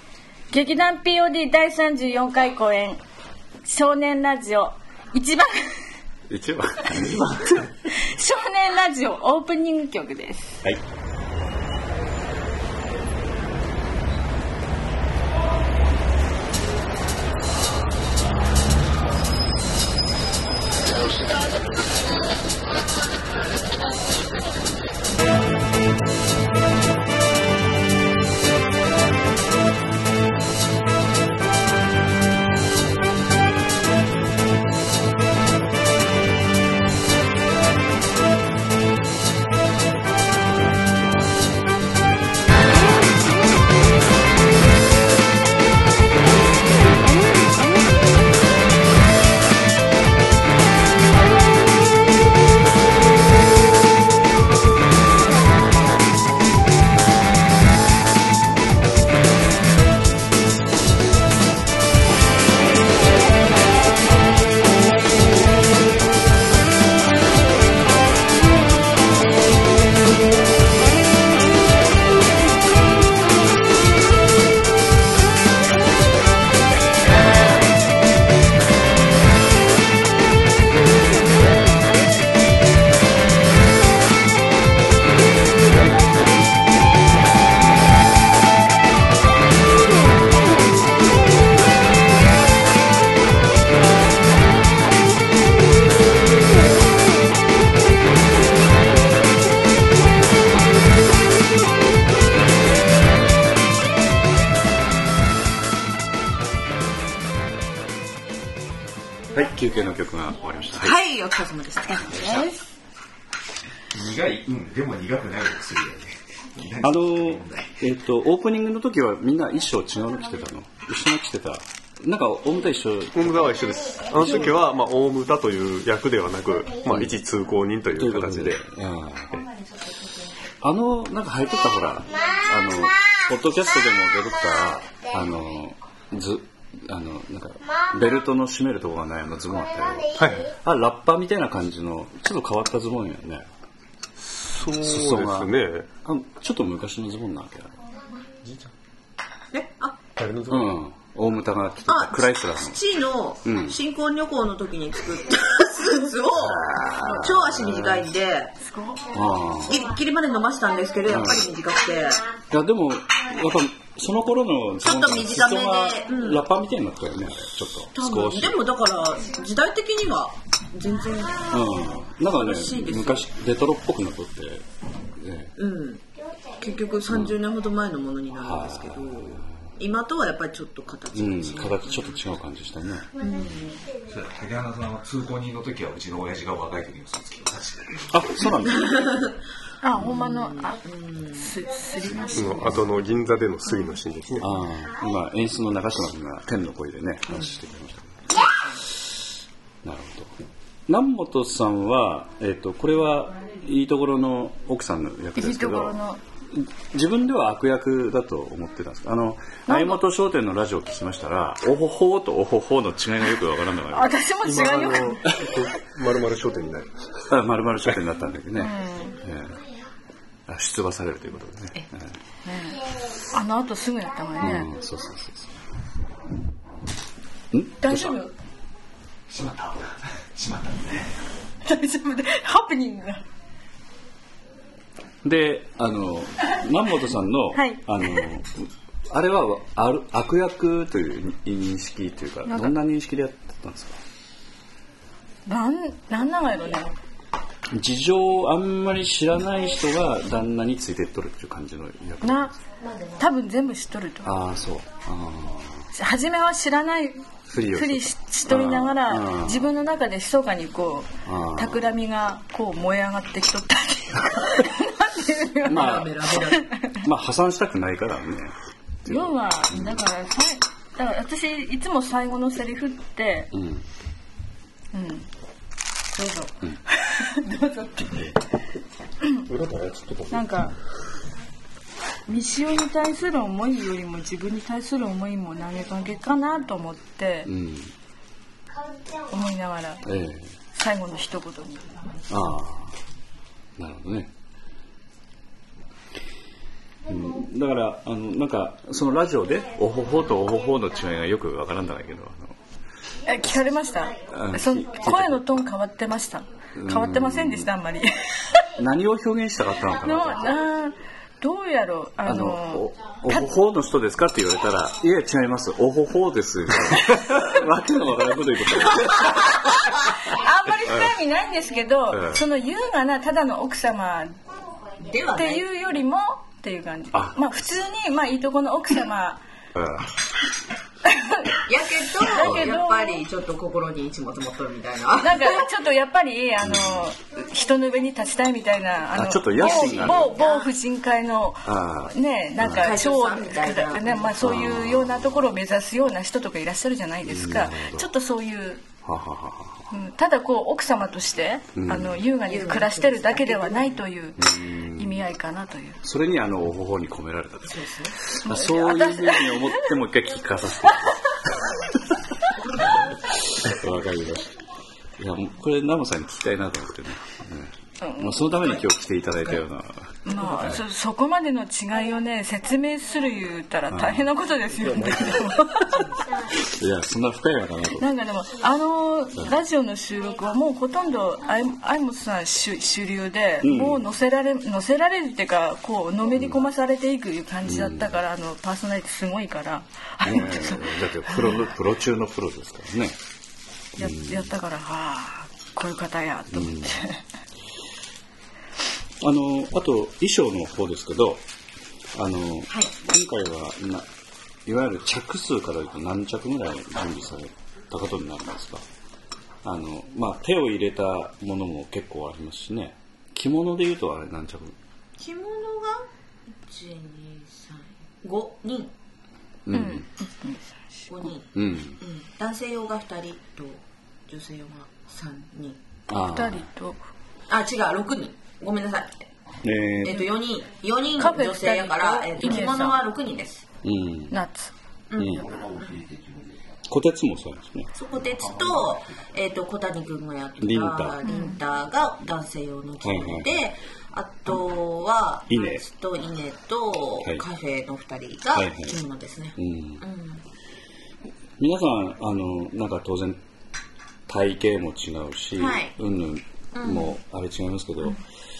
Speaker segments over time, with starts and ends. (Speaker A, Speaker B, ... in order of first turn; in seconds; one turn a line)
Speaker A: 0.5-3.0
Speaker A: 3.6-5.9
Speaker B: 6.3-7.7
Speaker A: 7.9-10.6
Speaker B: 109.3-111.0
Speaker C: 110.8-112.5
Speaker D: 112.1-112.4
Speaker A: 112.1-112.6
Speaker D: 113.9-117.8
Speaker B: 116.8-124.5
Speaker E: 123.1-128.6
Speaker B: 126.8-127.2
Speaker B: 127.9-129.5
Speaker B: 130.6-143.5
Speaker E: 140.1-140.5
Speaker E: 144.3-145.9
Speaker B: 144.8-147.8
Speaker E: 148.4-148.7
Speaker C: 149.5-150.0
Speaker E: 150.2-150.8
Speaker B: 150.5-152.8
Speaker C: 151.8-158.5
Speaker B: 153.4-153.8
Speaker B: 156.4-158.1
Speaker A: 158.6-159.1
Speaker B: 159.1-159.8
Speaker C: 159.6-162.3
Speaker B: 161.0-161.5
Speaker B: 162.5-168.6
Speaker C: 164.8-166.4
Speaker C: 167.9-171.5
Speaker B: 171.5-174.6
Speaker C: 172.3-173.3
Speaker B: 175.2-175.5
Speaker C: 175.6-176.0
Speaker C: 176.6-182.2
Speaker B: 177.1-177.4
Speaker B: 178.4-179.7
Speaker B: 181.1-183.2
Speaker C: 183.2-183.8
Speaker D: 184.0-188.2
Speaker B: 188.1-189.1
Speaker C: 188.7-189.3
Speaker A: 189.8-190.8
Speaker C: 189.9-191.5
Speaker A: 191.3-192.8
Speaker E: 192.3-194.5
Speaker B: 194.4-198.4
Speaker C: 198.4-198.8
Speaker B: 199.8-200.3
Speaker B: 200.9-205.9
Speaker A: 205.3-206.2
Speaker B: 206.5-214.2
Speaker A: 209.7-210.0
Speaker A: 213.9-215.4
Speaker E: 214.4-217.0
Speaker B: 217.3-219.6
Speaker A: 218.6-219.2
Speaker B: 220.5-222.1
Speaker A: 222.4-224.7
Speaker B: 224.4-225.6
Speaker B: 227.5-228.2
Speaker A: 227.8-228.3
Speaker D: 229.3-231.1
Speaker A: 231.6-233.2
Speaker B: 235.2-243.9
Speaker A: 237.5-238.2
Speaker A: 242.5-242.7
Speaker A: 245.4-246.9
Speaker B: 247.7-252.6
Speaker A: 252.2-252.5
Speaker A: 253.1-254.3
Speaker B: 254.2-255.9
Speaker A: 255.9-267.0
Speaker B: 257.5-259.7
Speaker B: 261.2-261.9
Speaker B: 265.6-266.4
Speaker C: 265.7-266.7
Speaker B: 267.0-270.0
Speaker A: 269.1-273.5
Speaker B: 273.5-273.8
Speaker A: 274.9-275.3
Speaker A: 276.1-278.3
Speaker E: 279.5-280.5
Speaker A: 280.3-280.7
Speaker A: 282.2-287.5
Speaker B: 287.4-287.9
Speaker A: 289.3-290.0
Speaker B: 290.0-290.5
Speaker A: 290.7-291.9
Speaker B: 292.3-292.9
Speaker B: 293.8-294.3
Speaker B: 297.1-302.6
Speaker A: 303.2-308.6
Speaker B: 304.3-305.6
Speaker B: 306.8-307.7
Speaker B: 308.8-310.6
Speaker A: 310.0-313.5
Speaker B: 312.2-319.6
Speaker A: 319.3-324.4
Speaker B: 322.1-322.4
Speaker C: 325.0-325.6
Speaker A: 325.3-329.4
Speaker B: 329.7-330.1
Speaker A: 331.1-331.6
Speaker C: 331.6-335.6
Speaker A: 332.2-333.2
Speaker B: 332.4-332.7
Speaker A: 335.2-348.8
Speaker B: 336.6-337.1
Speaker B: 339.1-340.3
Speaker C: 339.5-340.7
Speaker B: 341.6-342.9
Speaker C: 342.6-344.5
Speaker B: 344.4-345.5
Speaker B: 347.2-348.1
Speaker B: 349.0-349.9
Speaker A: 349.9-356.0
Speaker B: 351.8-352.2
Speaker C: 352.4-354.0
Speaker B: 354.4-355.2
Speaker B: 356.0-361.2
Speaker C: 357.6-358.2
Speaker A: 358.4-359.9
Speaker B: 363.5-364.5
Speaker B: 365.2-370.8
Speaker A: 368.0-368.8
Speaker A: 370.2-376.2
Speaker B: 373.9-374.2
Speaker B: 374.9-375.4
Speaker B: 376.6-378.1
Speaker A: 378.0-391.6
Speaker B: 383.6-384.0
Speaker B: 387.6-388.2
Speaker B: 390.2-393.2
Speaker B: 394.0-394.5
Speaker A: 394.0-397.2
Speaker B: 396.5-397.0
Speaker B: 399.2-401.4
Speaker B: 402.1-404.1
Speaker B: 404.6-408.8
Speaker B: 409.6-414.7
Speaker C: 415.2-416.1
Speaker C: 416.6-418.9
Speaker B: 419.6-420.1
Speaker A: 419.7-421.3
Speaker C: 421.1-425.8
Speaker B: 421.5-422.0
Speaker B: 426.1-426.6
Speaker A: 426.1-427.0
Speaker C: 427.5-429.3
Speaker B: 429.6-430.3
Speaker C: 430.0-433.6
Speaker A: 431.2-433.0
Speaker B: 433.8-434.3
Speaker A: 434.3-434.7
Speaker C: 435.1-435.5
Speaker B: 435.2-435.4
Speaker D: 435.4-436.6
Speaker B: 436.9-437.9
Speaker C: 437.9-450.4
Speaker D: 438.3-439.1
Speaker B: 440.6-441.2
Speaker A: 441.2-441.6
Speaker B: 443.0-443.6
Speaker B: 445.5-445.8
Speaker B: 448.5-449.0
Speaker B: 449.6-450.0
Speaker B: 451.6-453.4
Speaker B: 454.3-458.2
Speaker C: 455.6-455.9
Speaker C: 456.8-457.1